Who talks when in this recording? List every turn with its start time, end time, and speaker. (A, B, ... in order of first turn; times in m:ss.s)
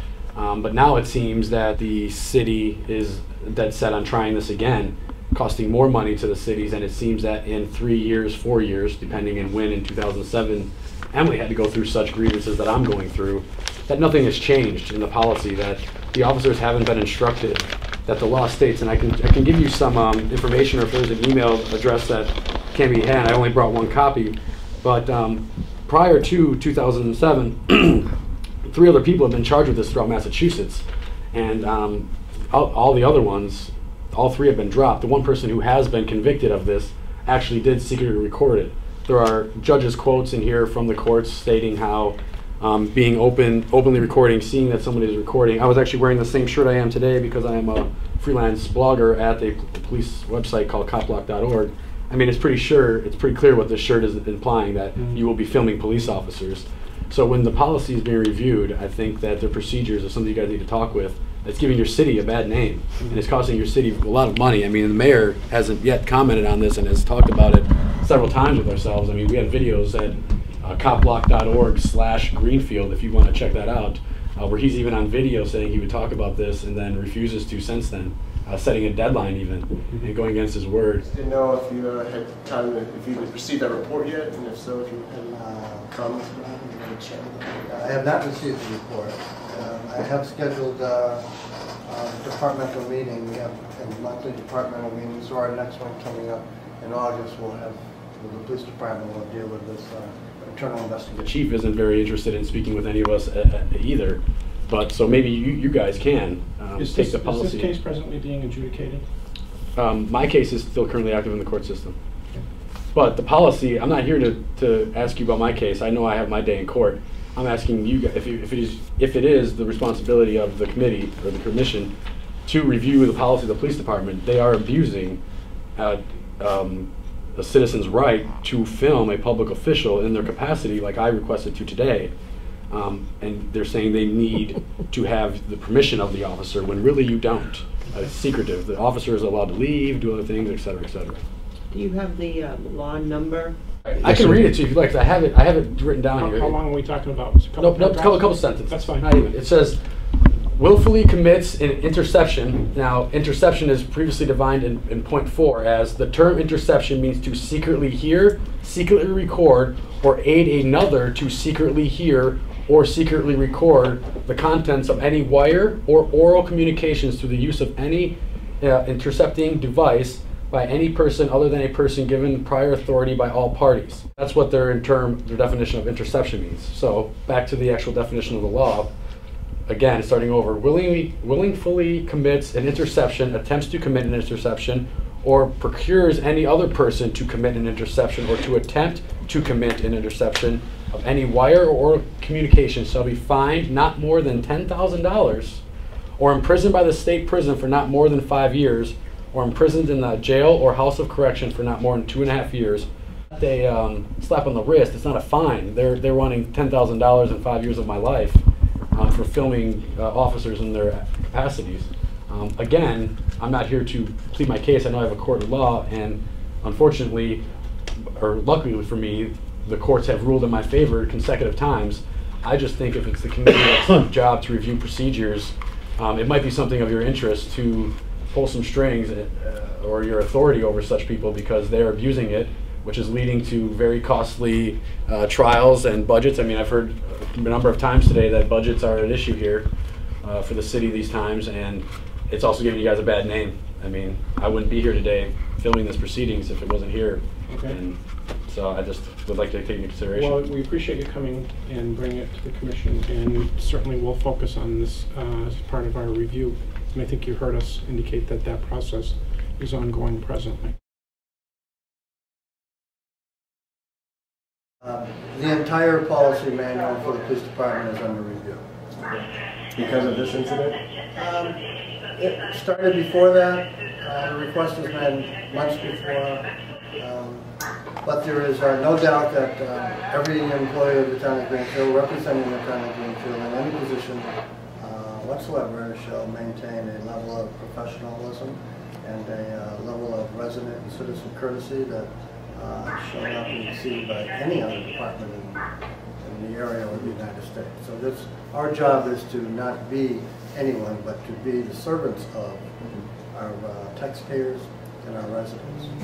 0:00.4-0:28.1 A
0:28.7-1:21.0 A
0:55.0-0:55.2 B
1:21.0-1:25.2 C
1:25.2-1:31.3 D
1:31.9-1:41.3 D
1:41.2-1:47.7 A
1:46.8-1:49.1 B
1:49.8-1:52.0 A
1:52.9-2:01.9 A
2:02.4-2:05.2 A
2:05.8-2:12.1 A
2:12.7-2:21.2 A
2:21.7-2:24.2 E
2:23.8-2:26.6 A
2:26.2-2:29.1 B
2:27.6-2:29.8 A
2:30.6-2:58.9 A
2:59.7-3:15.6 A
3:16.2-3:37.4 A
3:38.2-3:59.7 A
4:00.2-4:10.4 A
4:07.5-4:07.8 B
4:10.1-4:20.8 B
4:24.8-4:28.6 D
4:29.8-4:30.7 C
4:29.8-4:31.6 D
4:32.2-4:37.5 D
4:38.0-4:55.6 D
4:56.2-5:02.8 D
5:03.3-5:05.9 D